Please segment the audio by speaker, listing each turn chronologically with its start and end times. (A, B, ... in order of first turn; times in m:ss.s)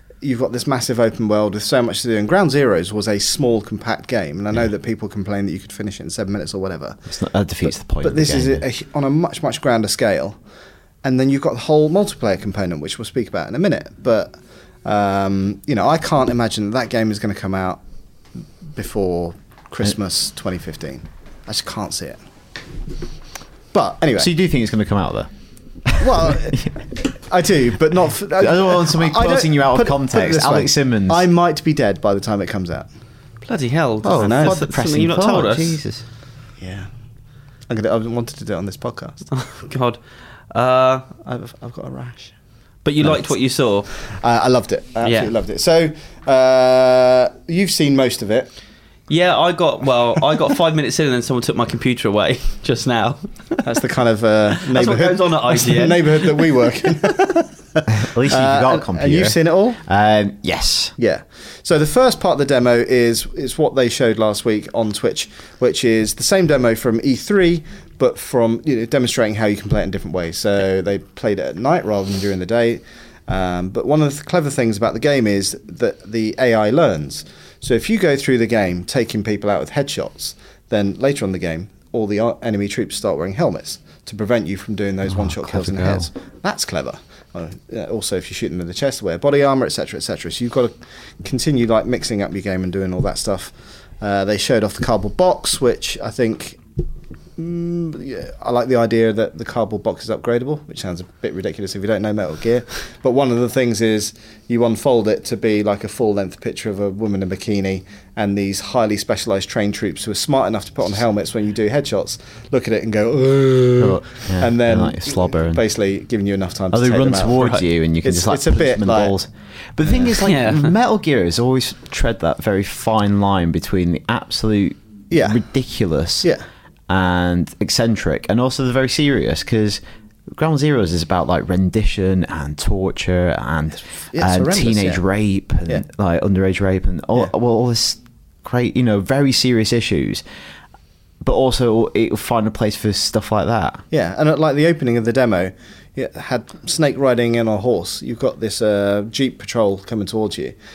0:00.2-0:07.0 A
0:07.1-0:08.6 B
0:07.6-0:10.4 A
0:11.0-0:17.8 A
0:18.7-0:22.2 A
0:23.7-0:24.3 A
0:24.2-0:25.3 B
0:25.8-0:26.7 B
0:26.0-0:32.9 A
0:28.4-0:31.2 B
0:33.4-0:35.8 C
0:34.0-0:36.0 B
0:34.1-0:34.6 A
0:36.6-0:36.9 A
0:37.7-0:39.2 A
0:39.3-0:40.0 C
0:40.5-0:41.1 C
0:41.2-0:42.3 A
0:42.8-0:43.9 C
0:44.0-0:48.5 A
0:45.0-0:45.3 C
0:49.1-0:53.6 C
0:53.6-0:59.8 A
0:54.7-0:56.5 C
0:57.9-1:00.9 B
1:01.0-1:36.6 A
1:25.1-1:26.1 B
1:37.4-1:59.2 A
1:53.8-1:55.6 B
1:56.7-2:06.3 B
2:00.2-2:00.7 C
2:05.1-2:05.4 A
2:06.9-2:09.8 B
2:10.3-2:20.2 B
2:14.1-2:15.0 A
2:21.2-2:23.8 B
2:23.9-2:30.6 A